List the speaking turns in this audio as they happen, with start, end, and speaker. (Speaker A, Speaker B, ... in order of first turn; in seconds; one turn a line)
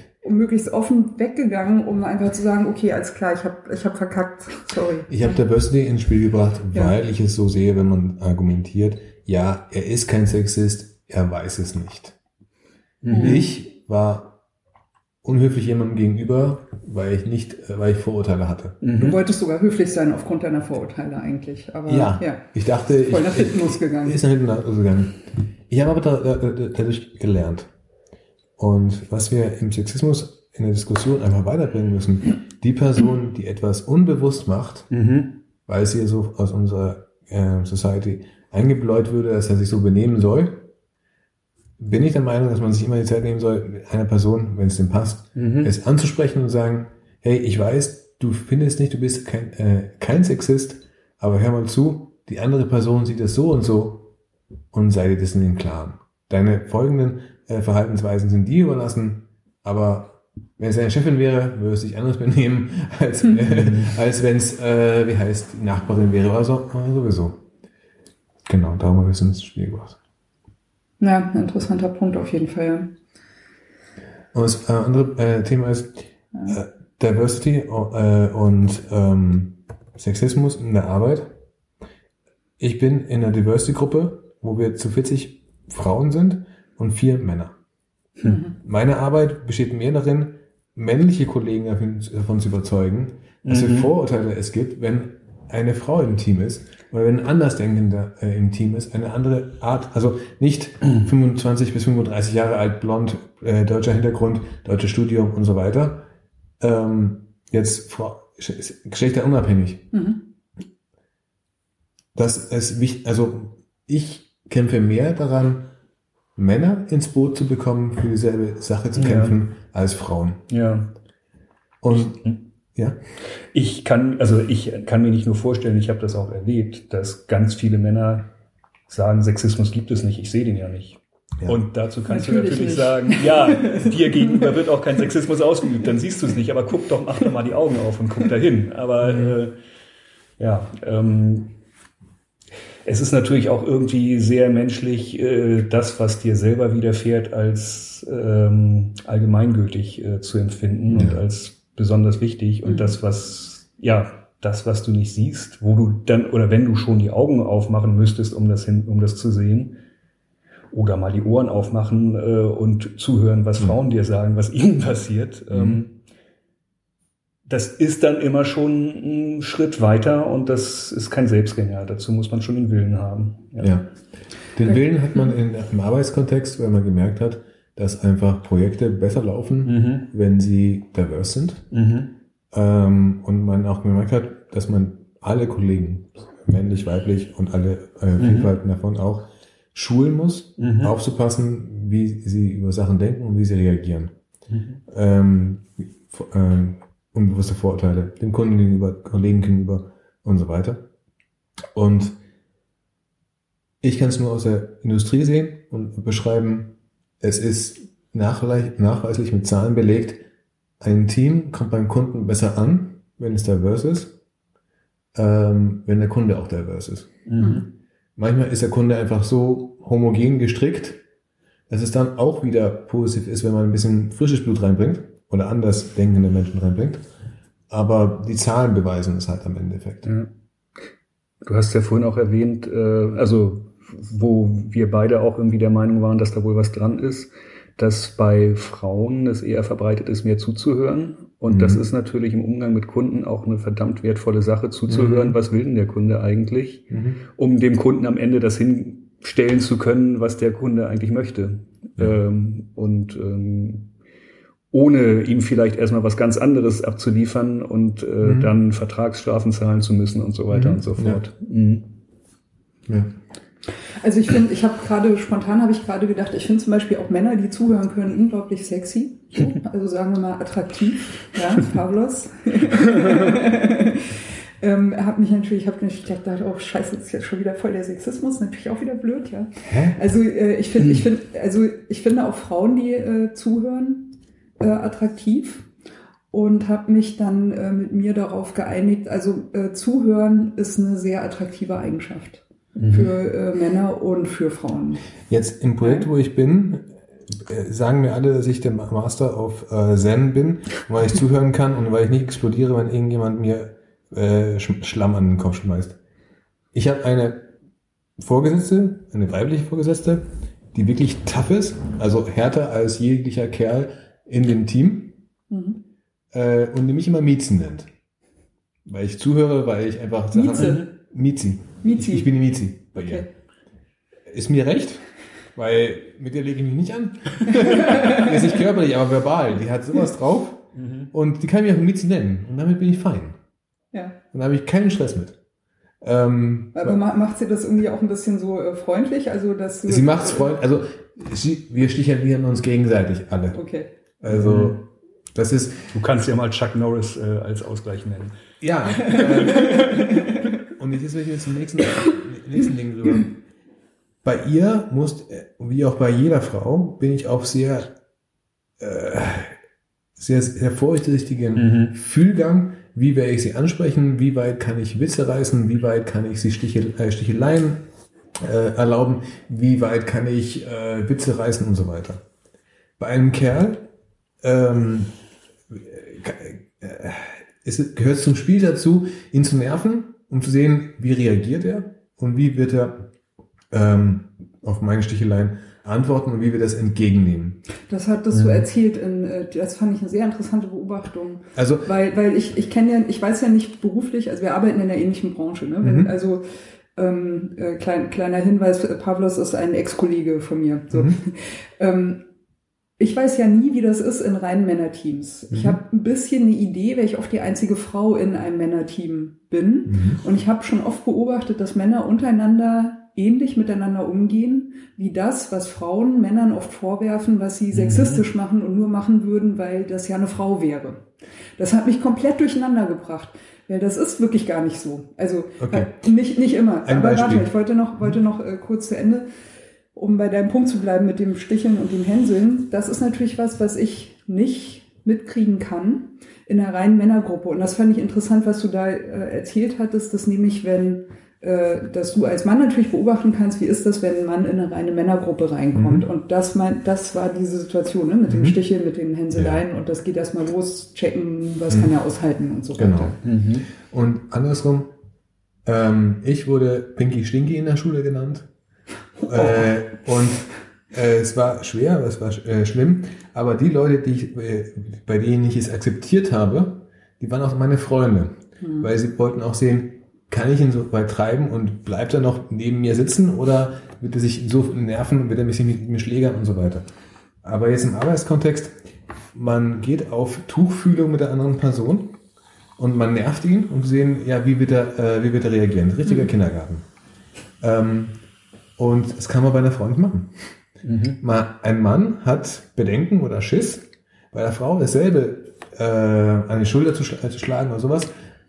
Speaker A: 0.2-5.1
Speaker B: 5.1-12.2
Speaker C: 13.0-13.5
Speaker B: 13.1-14.4
Speaker A: 13.1-13.5
Speaker B: 15.2-18.9
Speaker C: 18.8-19.2
Speaker A: 19.0-22.4
Speaker B: 21.9-27.7
Speaker A: 23.0-24.2
Speaker B: 28.6-34.9
Speaker C: 34.9-35.4
Speaker B: 35.7-40.7
Speaker B: 41.8-54.1
Speaker C: 45.4-45.7
Speaker B: 54.7-67.4
Speaker C: 63.4-64.0
Speaker B: 68.5-70.0
Speaker A: 71.0-72.9
Speaker B: 74.3-81.4
Speaker B: 82.6-87.6
Speaker A: 88.2-88.5
Speaker B: 88.5-106.1
Speaker C: 93.5-93.9
Speaker B: 106.6-109.9
Speaker A: 109.9-110.2
Speaker B: 112.2-115.7
Speaker B: 116.4-120.5
Speaker C: 119.0-119.4
Speaker C: 120.5-120.9
Speaker B: 121.8-122.2
Speaker C: 121.9-122.4
Speaker C: 123.5-128.3
Speaker C: 128.9-139.5
Speaker A: 132.1-134.5
Speaker B: 139.0-139.4
Speaker C: 140.4-141.5
Speaker C: 142.8-159.8
Speaker B: 150.9-151.2
Speaker A: 152.7-153.0
Speaker C: 160.7-165.9
Speaker B: 165.5-165.8
Speaker C: 167.5-173.7
Speaker B: 173.6-173.9
Speaker B: 174.5-181.7
Speaker C: 179.7-180.1
Speaker C: 181.7-182.1
Speaker B: 182.5-194.2
Speaker C: 188.2-188.5
Speaker C: 190.6-190.9
Speaker C: 194.5-194.8
Speaker B: 194.9-200.9
Speaker B: 201.7-202.2
Speaker B: 203.8-210.2
Speaker B: 210.8-214.2
Speaker B: 215.2-217.3
Speaker C: 217.3-217.6
Speaker A: 217.4-217.7
Speaker B: 218.2-221.0
Speaker B: 221.7-227.1
Speaker B: 227.7-230.1
Speaker C: 231.4-253.9
Speaker B: 241.5-241.8
Speaker B: 244.9-245.4
Speaker B: 246.9-247.2
Speaker C: 254.7-261.9
Speaker B: 258.2-258.6
Speaker B: 260.5-261.2
Speaker B: 262.9-263.1
Speaker A: 264.0-285.7
Speaker B: 279.6-280.0
Speaker A: 286.3-295.0
Speaker C: 292.8-293.1
Speaker B: 295.3-306.0
Speaker B: 306.7-307.5
Speaker B: 308.2-315.2
Speaker A: 315.5-315.8
Speaker B: 316.3-317.9
Speaker B: 318.9-323.3
Speaker A: 320.3-320.9
Speaker A: 321.8-322.3
Speaker A: 323.0-323.3
Speaker B: 324.3-333.4
Speaker A: 327.5-328.4
Speaker C: 330.8-331.1
Speaker B: 334.3-335.4
Speaker B: 336.0-337.0
Speaker A: 336.8-340.5
Speaker B: 339.9-343.6
Speaker A: 343.5-343.9
Speaker B: 344.2-345.9
Speaker C: 344.3-344.8
Speaker C: 345.9-348.4
Speaker B: 348.6-350.1
Speaker C: 349.0-349.9
Speaker A: 349.1-350.5
Speaker B: 350.7-353.4
Speaker B: 354.2-357.9
Speaker B: 358.8-359.6
Speaker B: 360.2-367.8
Speaker C: 361.6-361.9
Speaker B: 368.4-372.2
Speaker B: 373.0-373.9
Speaker B: 374.4-375.1
Speaker B: 375.7-383.1
Speaker B: 383.7-387.6
Speaker A: 387.9-396.4
Speaker C: 388.3-388.7
Speaker B: 391.6-391.9
Speaker B: 395.8-396.1
Speaker A: 397.0-402.2
Speaker B: 400.9-401.2
Speaker A: 403.0-421.1
Speaker B: 405.5-405.8
Speaker B: 409.9-410.2
Speaker C: 417.7-418.2
Speaker A: 421.6-429.3
Speaker B: 425.6-425.9
Speaker B: 426.9-427.5
Speaker A: 429.9-453.2
Speaker B: 445.8-446.1
Speaker B: 448.3-448.6
Speaker B: 449.3-449.6
Speaker B: 451.7-451.9
Speaker B: 452.8-453.2
Speaker C: 453.2-453.7
Speaker B: 453.7-454.9
Speaker B: 455.6-458.5
Speaker A: 459.2-459.7
Speaker B: 459.3-476.9
Speaker A: 468.6-468.9
Speaker B: 477.4-478.8
Speaker B: 479.3-482.2
Speaker B: 482.8-486.9
Speaker B: 487.6-488.2
Speaker B: 488.8-490.5
Speaker C: 490.9-491.2
Speaker B: 491.2-498.1